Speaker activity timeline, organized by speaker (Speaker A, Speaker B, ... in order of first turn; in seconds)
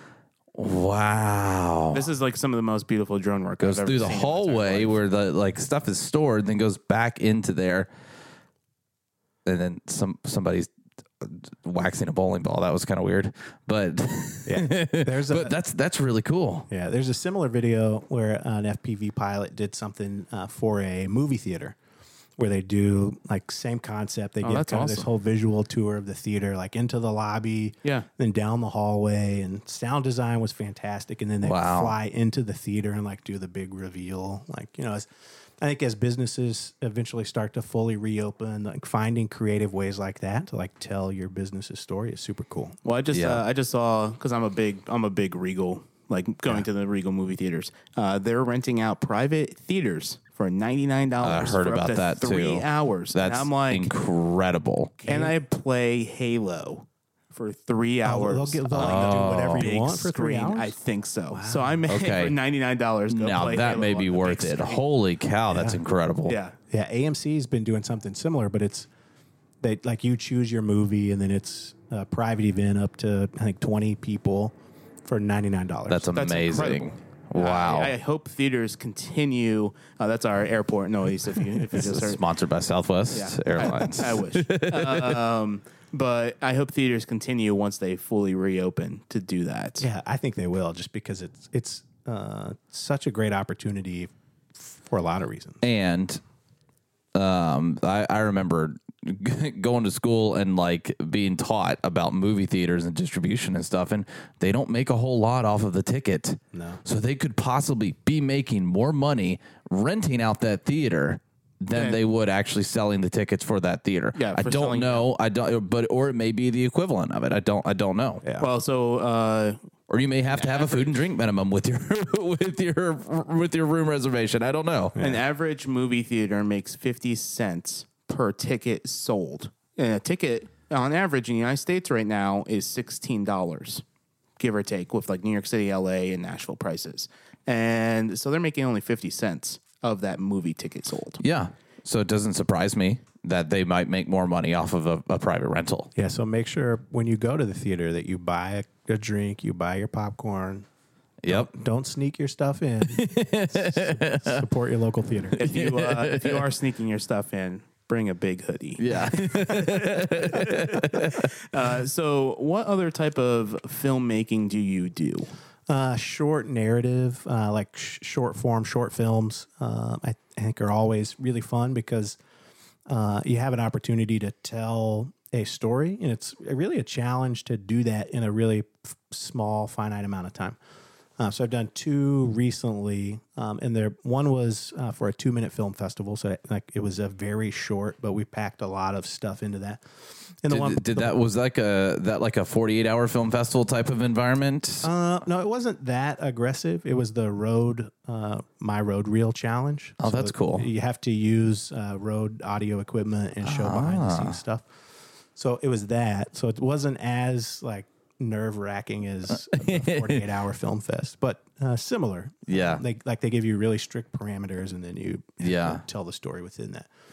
Speaker A: 0.5-2.1, 3.6-7.9, 9.4-16.7, 31.4-31.9, 43.1-43.4, 51.2-55.0, 58.7-59.7, 61.9-62.4, 63.1-66.4, 75.9-78.0, 81.7-85.2, 95.6-96.2, 97.1-118.2, 119.9-125.0, 141.2-145.9, 151.2-151.5, 152.9-154.4, 155.4-156.5, 158.8-161.3, 190.5-194.9, 200.0-200.7, 203.4-204.4, 209.4-210.2, 212.5-212.8, 215.4-215.8
Speaker B: 1.9-5.0, 24.4-25.1, 42.8-53.9, 55.0-64.8, 66.2-66.6, 76.1-82.2, 83.1-89.8, 111.7-112.0, 114.1-115.1, 118.4-119.6, 120.3-120.9, 125.0-133.8, 134.4-141.2, 155.4-165.3
Speaker C: 14.4-15.5, 16.7-21.8, 22.4-35.1, 35.6-42.8, 55.0-55.3, 58.0-60.7, 61.3-61.8, 65.5-65.8, 66.7-68.9, 69.6-74.5, 75.0-76.2, 89.8-95.6, 106.5-106.8, 125.0-125.2, 145.9-150.7, 151.3-155.4, 165.7-172.2, 172.9-180.6, 181.2-189.8, 190.4-191.1, 194.8-204.7, 205.3-216.9